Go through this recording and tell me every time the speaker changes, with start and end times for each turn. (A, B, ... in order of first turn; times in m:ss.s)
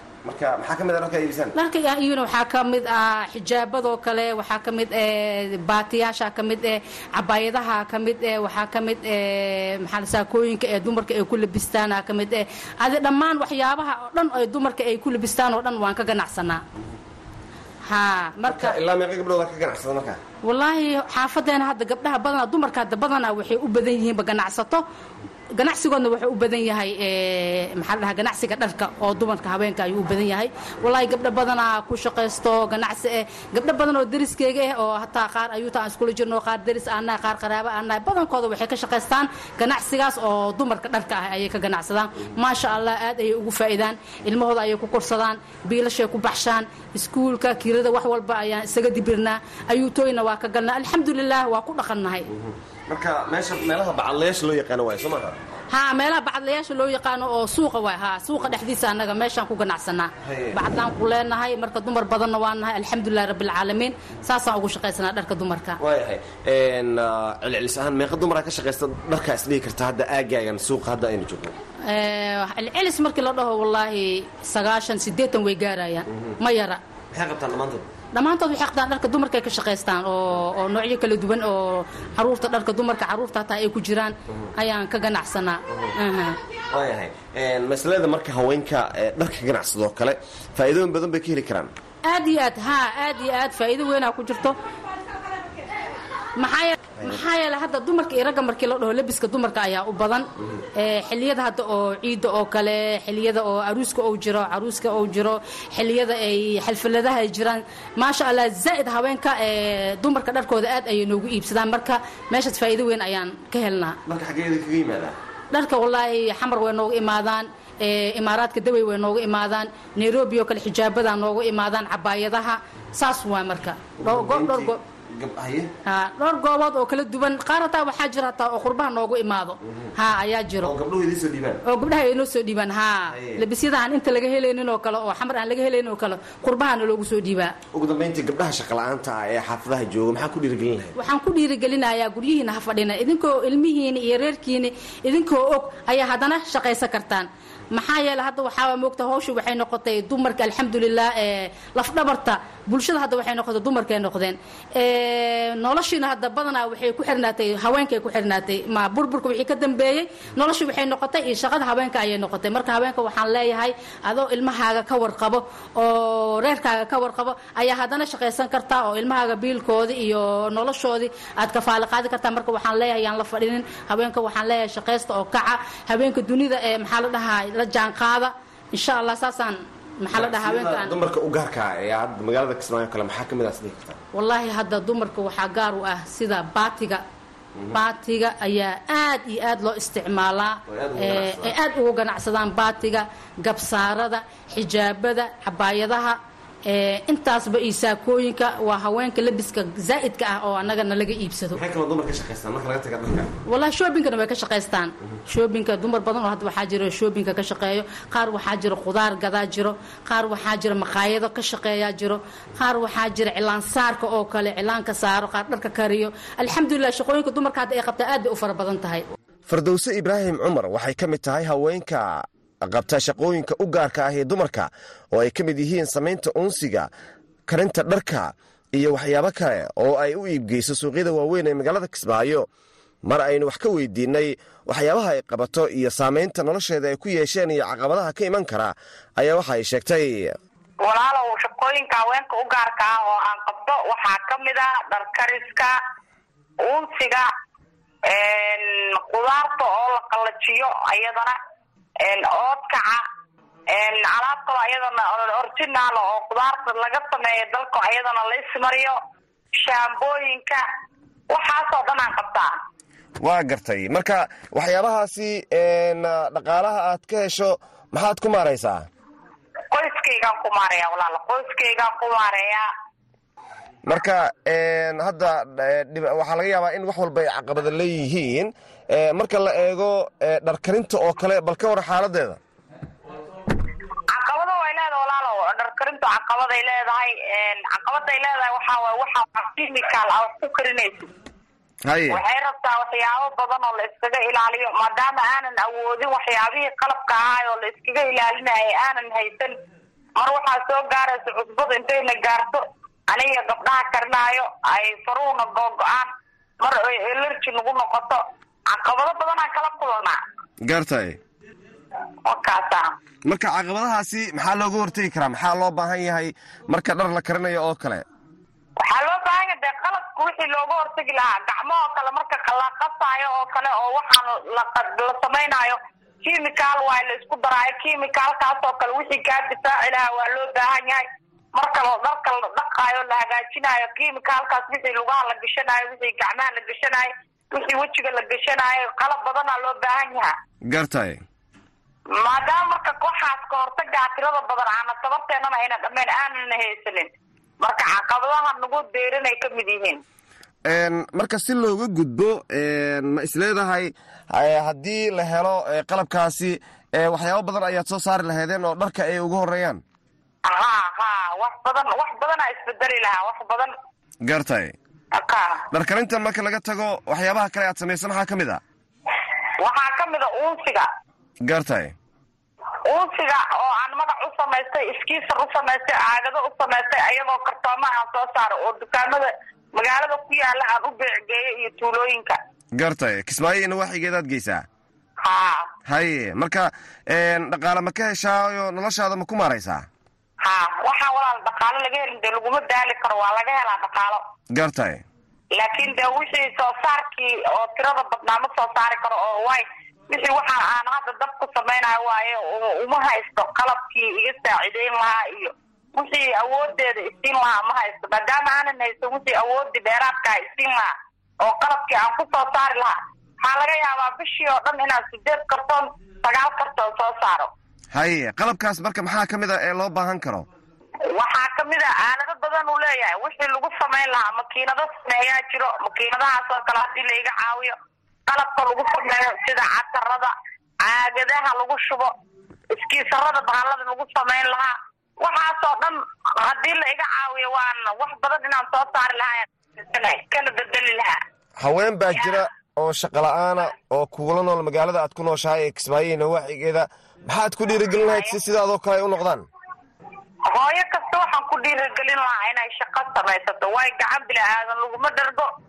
0:00.2-0:01.5 A
0:01.6-0:16.6 B
0:17.9-0:18.8 B
0:18.5-0:20.2 A
0:20.4-0:24.8 B
0:25.6-0:52.3 B
0:52.3-0:55.4 A
0:55.7-1:05.8 B
1:00.2-1:00.6 A
1:05.8-1:11.5 A
1:11.9-1:16.8 B
1:16.1-1:16.4 A
1:17.1-1:17.9 A
1:18.1-1:26.4 B
1:26.7-1:31.7 A
1:32.1-1:34.6 B
1:36.4-1:54.0 B
1:54.1-1:55.2 A
1:55.5-2:04.8 B
2:04.0-2:05.7 A
2:05.9-2:10.7 B
2:10.6-2:11.6 A
2:11.6-2:17.5 B
2:13.1-2:13.4 A
2:17.7-2:20.9 A
2:21.0-3:01.0 B
3:00.1-3:04.0 A
3:04.2-3:07.0 B
3:07.7-3:21.6 B
3:10.7-3:11.6 A
3:21.5-3:23.4 A
3:23.5-3:39.1 B
3:39.5-3:46.9 A
3:47.5-3:52.5 A
3:53.0-4:00.4 A
4:00.8-4:05.7 C
4:06.6-4:07.3 C
4:08.1-4:11.4 C
4:12.0-4:13.0 C
4:13.7-4:19.0 C
4:19.6-4:20.6 C
4:21.3-4:22.5 C
4:23.2-4:28.8 A
4:29.7-4:32.7 C
4:33.9-4:42.4 A
4:44.1-4:51.1 C
4:51.8-4:52.2 A
4:52.1-4:59.6 C
5:00.2-5:06.1 C
5:06.6-5:10.2 C
5:10.6-5:11.2 A
5:12.2-5:12.9 C
5:13.2-5:18.0 A
5:18.8-5:40.4 C
5:40.7-5:41.2 A
5:42.1-5:47.1 C
5:47.6-5:50.0 C
5:50.7-5:59.8 A
6:00.5-6:03.7 C
6:04.2-6:04.8 A
6:05.1-6:05.6 C
6:05.7-6:08.6 A
6:09.6-6:10.9 C
6:11.4-6:12.0 A
6:12.9-6:22.4 C
6:22.8-6:24.6 A
6:25.2-6:25.7 C
6:25.9-6:29.9 A
6:30.4-6:34.2 C
6:34.5-6:35.0 A
6:35.5-6:57.5 C
6:57.9-7:00.4 A
7:01.1-7:07.8 C
7:08.3-7:12.1 C
7:12.7-7:21.2 C
7:21.6-7:29.4 A
7:28.0-7:28.3 C
7:30.5-7:35.5 C